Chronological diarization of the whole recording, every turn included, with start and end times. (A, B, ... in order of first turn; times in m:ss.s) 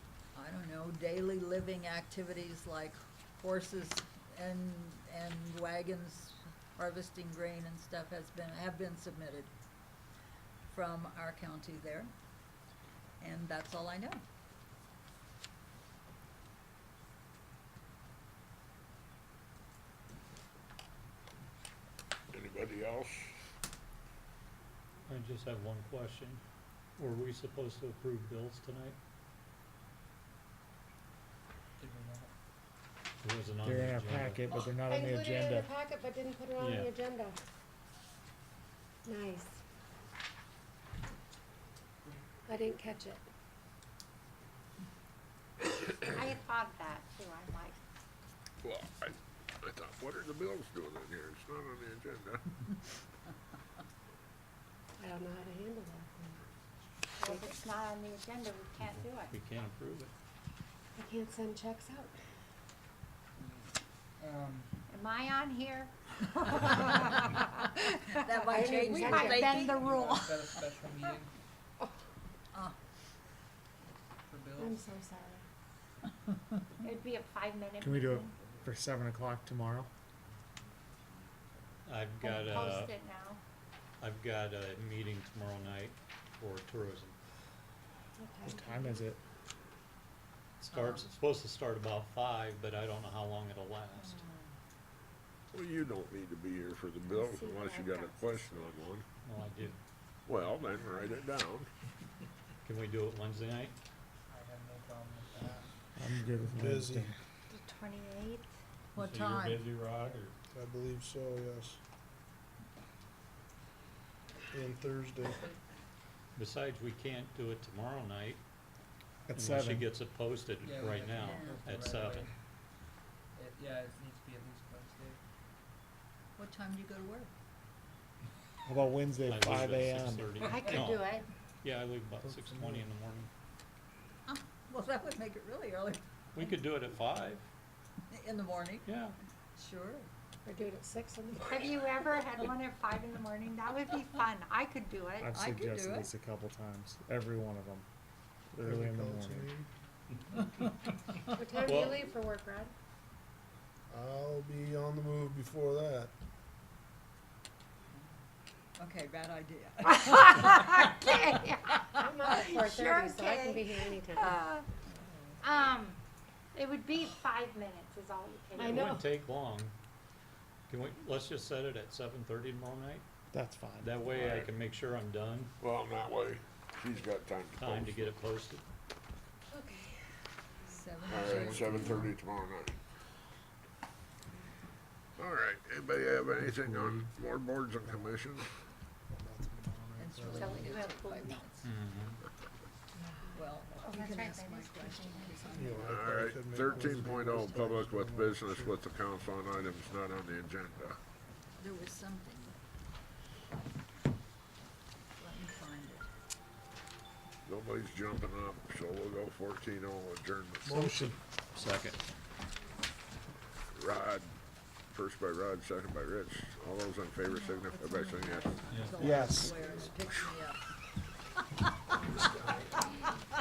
0:00.3-0:09.5 A
0:10.7-0:12.1 A
0:13.2-0:14.2 A
0:22.3-0:23.3 B
0:25.0-0:26.4 C
0:27.0-0:29.0 C
0:31.8-0:32.3 D
0:33.2-0:34.4 C
0:33.6-0:35.7 E
0:34.8-0:37.4 F
0:36.6-0:36.9 C
0:39.0-0:39.6 F
0:42.5-0:43.3 F
0:46.1-0:47.8 G
0:48.6-0:52.4 B
0:55.0-0:56.4 F
0:57.2-0:59.4 G
0:57.2-0:57.5 F
0:59.3-1:00.1 C
1:01.0-1:02.1 F
1:03.4-1:04.7 D
1:04.9-1:10.4 G
1:07.2-1:09.9 A
1:08.5-1:09.4 F
1:09.5-1:11.3 D
1:14.3-1:14.9 D
1:14.6-1:15.4 F
1:16.8-1:18.3 G
1:17.8-1:19.9 E
1:21.8-1:22.9 C
1:22.2-1:23.4 G
1:24.0-1:27.2 C
1:28.2-1:29.1 F
1:28.4-1:29.2 E
1:30.6-1:34.2 C
1:30.7-1:31.1 A
1:34.0-1:34.5 G
1:35.5-1:39.0 B
1:37.4-1:38.1 G
1:39.2-1:39.8 C
1:40.3-1:41.7 B
1:42.6-1:43.8 C
1:44.3-1:45.7 D
1:46.0-1:47.1 E
1:46.5-1:47.1 H
1:47.5-1:48.5 G
1:49.0-1:49.6 A
1:49.0-1:50.3 C
1:50.5-1:51.8 H
1:54.5-1:55.4 H
1:56.4-1:58.4 C
1:59.3-1:59.8 E
1:59.3-2:02.3 C
2:00.6-2:02.3 D
2:01.1-2:01.6 A
2:03.3-2:05.2 D
2:06.4-2:07.3 A
2:08.6-2:10.3 E
2:09.3-2:11.1 C
2:10.4-2:11.3 G
2:11.6-2:13.3 C
2:14.2-2:16.0 A
2:16.3-2:17.4 C
2:18.1-2:18.9 A
2:18.8-2:19.2 C
2:19.6-2:20.1 A
2:20.4-2:21.6 F
2:21.4-2:25.3 G
2:25.2-2:27.9 E
2:25.3-2:26.1 A
2:28.5-2:29.5 E
2:28.6-2:29.7 H
2:31.3-2:32.7 F
2:31.6-2:32.0 C
2:33.9-2:36.1 H
2:38.8-2:41.1 A
2:39.9-2:44.7 G
2:42.0-2:44.3 F
2:44.9-2:45.3 A
2:45.4-2:46.0 G
2:46.6-2:49.0 G
2:48.6-2:49.7 C
2:50.7-2:53.0 C
2:53.3-2:54.0 E
2:53.8-2:55.5 C
2:54.1-2:54.6 B
2:55.6-2:58.2 B
2:57.6-2:58.6 C
2:59.5-2:59.9 F
3:00.7-3:02.1 A
3:01.1-3:02.8 B
3:05.2-3:08.5 B
3:09.1-3:10.4 E
3:10.0-3:11.7 A
3:10.2-3:11.4 G
3:11.6-3:12.2 C
3:13.3-3:16.0 A
3:13.8-3:15.8 G
3:15.5-3:18.8 H
3:15.8-3:21.0 B
3:21.6-3:22.6 A
3:25.2-3:26.1 A
3:27.5-3:30.8 B
3:30.6-3:31.2 E
3:30.8-3:32.0 C
3:33.8-3:34.3 B
3:34.9-3:38.7 B
3:37.4-3:40.6 A
3:38.8-3:39.2 D
3:39.0-3:39.6 E